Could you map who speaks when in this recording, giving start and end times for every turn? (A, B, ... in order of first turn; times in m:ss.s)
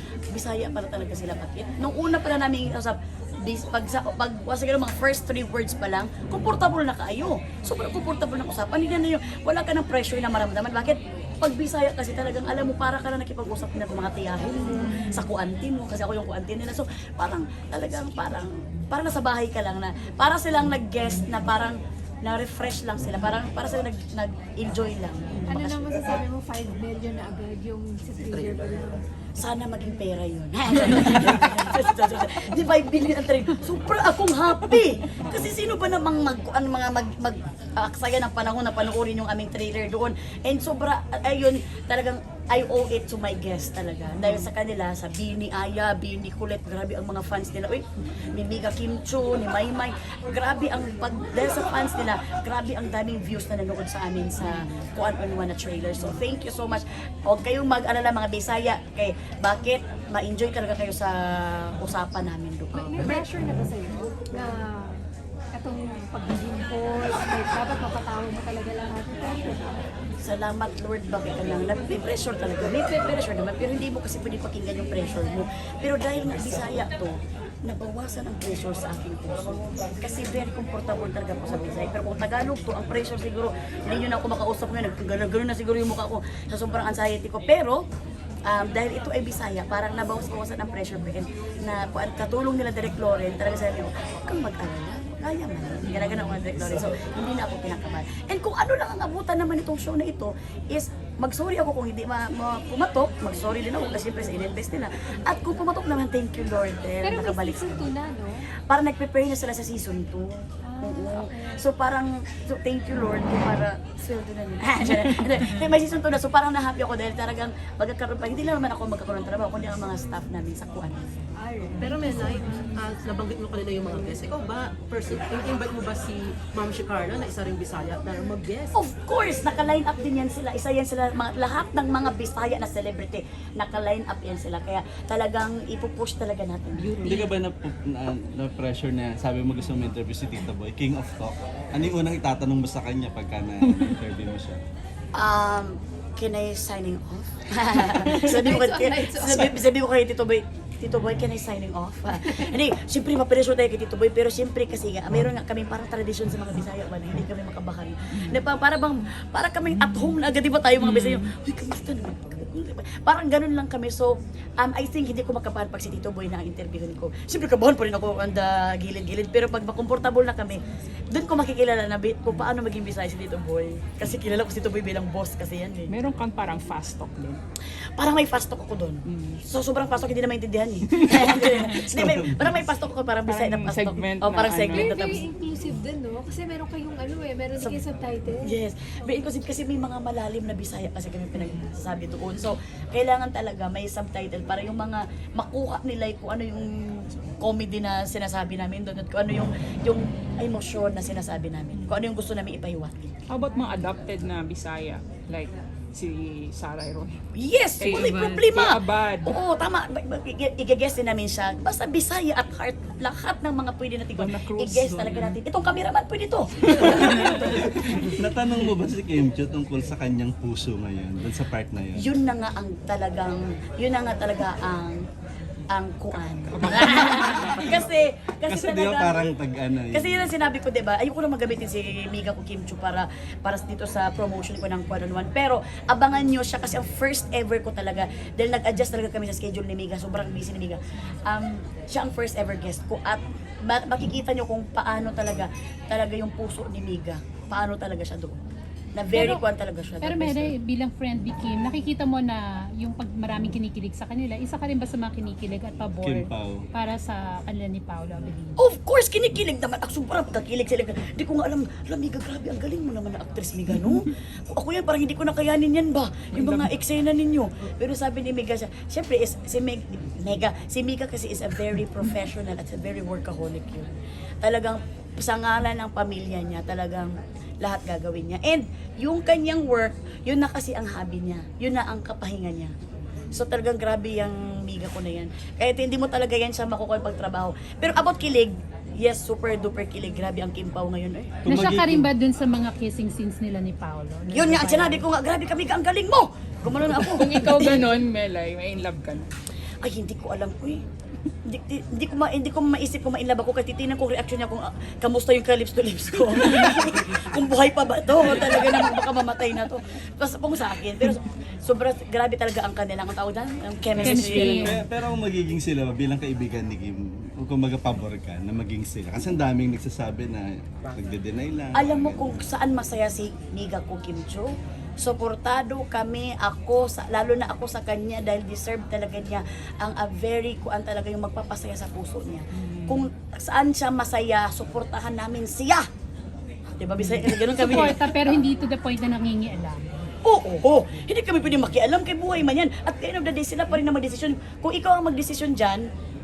0:00.3-0:25.9 A
0:25.5-0:29.0 B
0:29.4-1:03.2 A
1:02.8-1:05.0 B
1:05.6-1:09.8 B
1:10.2-1:27.8 A
1:28.5-1:47.9 A
1:47.0-1:48.4 B
1:48.7-2:01.0 A
1:50.7-1:51.6 B
2:01.4-2:03.3 B
2:01.8-2:08.8 C
2:03.9-2:04.2 B
2:08.7-2:17.1 A
2:17.0-2:24.6 D
2:25.2-2:55.9 A
2:28.0-2:29.6 B
2:40.8-2:41.3 E
2:55.9-2:57.4 E
2:58.0-3:05.3 A
2:59.1-2:59.4 E
3:01.9-3:02.6 D
3:03.3-3:05.0 E
3:04.7-3:09.2 B
3:08.4-3:23.1 A
3:23.3-3:27.2 E
3:27.4-3:38.2 A
3:27.8-3:29.4 E
3:34.2-3:35.4 E
3:37.8-3:42.0 D
3:42.0-3:45.0 A
3:45.7-3:49.4 A
3:47.2-3:47.6 E
3:48.5-3:50.3 D
3:49.9-4:08.4 A
4:09.0-4:10.6 A
4:09.1-4:09.4 F
4:10.0-4:12.3 F
4:12.8-4:18.5 F
4:16.0-4:16.7 D
4:18.6-4:33.9 A
4:26.3-4:26.7 E
4:34.4-4:37.1 A
4:37.6-4:42.7 A
4:43.3-4:51.4 A
4:51.4-4:52.1 D
4:51.5-4:55.0 F
4:54.3-4:57.8 A
4:56.9-4:59.3 E
4:59.8-5:00.8 A
5:01.5-5:14.8 A
5:14.0-5:22.4 D
5:14.1-5:14.8 F
5:21.8-5:35.9 A
5:36.8-5:38.4 A
5:37.6-5:39.9 F
5:40.2-5:45.9 A